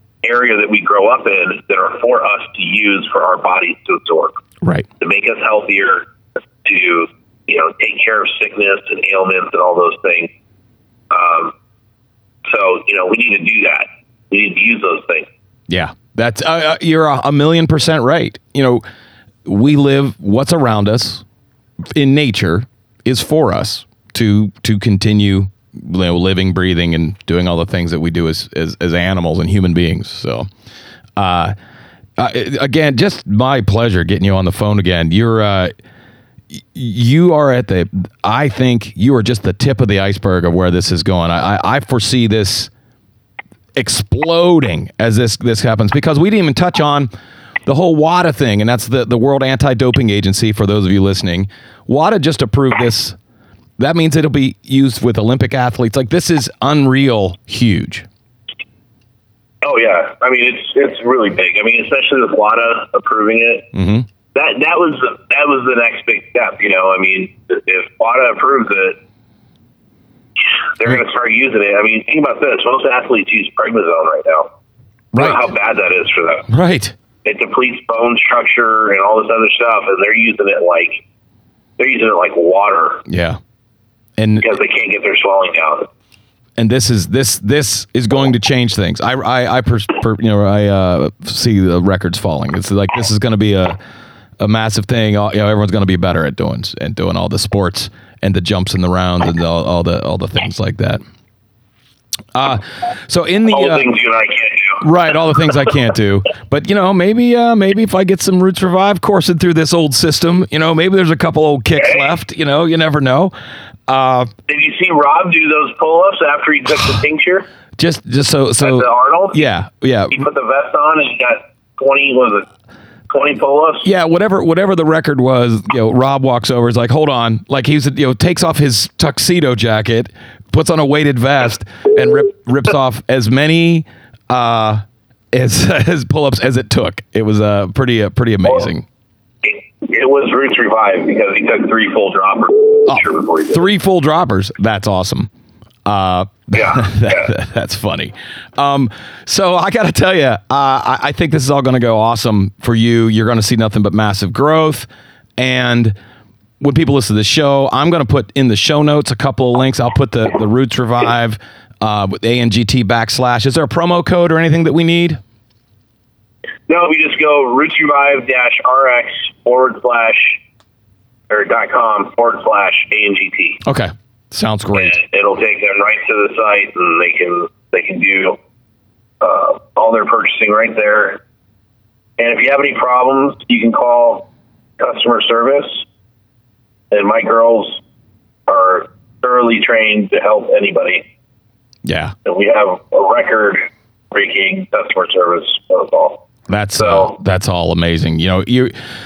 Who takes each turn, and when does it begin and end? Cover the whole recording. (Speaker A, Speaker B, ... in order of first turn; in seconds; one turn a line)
Speaker A: 0.2-4.4
Speaker B: 4.6-4.9
Speaker A: 5.0-6.1
Speaker A: 6.6-10.3
Speaker A: 11.1-11.5
Speaker A: 12.4-15.3
Speaker B: 15.7-18.8
Speaker B: 19.4-21.2
Speaker B: 21.9-30.5
Speaker B: 31.2-31.5
Speaker B: 32.2-35.7
Speaker B: 36.7-42.7
Speaker B: 43.7-47.1
Speaker B: 47.6-53.2
Speaker B: 53.8-58.1
Speaker A: 59.6-63.7
Speaker B: 63.7-64.1
Speaker A: 64.3-69.0
Speaker A: 70.8-74.5
Speaker B: 75.1-75.4
Speaker A: 75.1-76.5
Speaker B: 76.5-76.9
Speaker A: 77.2-81.0
Speaker A: 81.8-83.0
Speaker B: 83.1-83.4
Speaker B: 84.2-84.6
Speaker A: 84.4-85.9
Speaker B: 86.6-93.8
Speaker B: 94.4-101.0
Speaker B: 102.3-103.9
Speaker A: 103.5-104.8
Speaker B: 104.8-113.3
Speaker A: 111.7-112.1
Speaker B: 113.9-114.3
Speaker A: 114.5-117.5
Speaker B: 117.8-120.2
Speaker A: 118.6-119.5
Speaker A: 120.1-122.5
Speaker A: 123.1-123.9
Speaker B: 123.8-138.8
Speaker A: 139.4-143.7
Speaker B: 142.8-145.3
Speaker B: 145.8-155.9
Speaker A: 146.5-147.3
Speaker B: 156.6-165.2
Speaker A: 166.7-170.4
Speaker A: 171.3-173.6
Speaker B: 173.6-175.0
Speaker A: 174.7-178.4
Speaker A: 179.2-181.2
Speaker A: 182.2-184.3
Speaker A: 184.8-185.8
Speaker A: 186.9-187.8
Speaker A: 188.5-191.0
Speaker B: 191.8-192.1
Speaker A: 192.2-196.2
Speaker B: 196.5-198.7
Speaker A: 196.8-197.1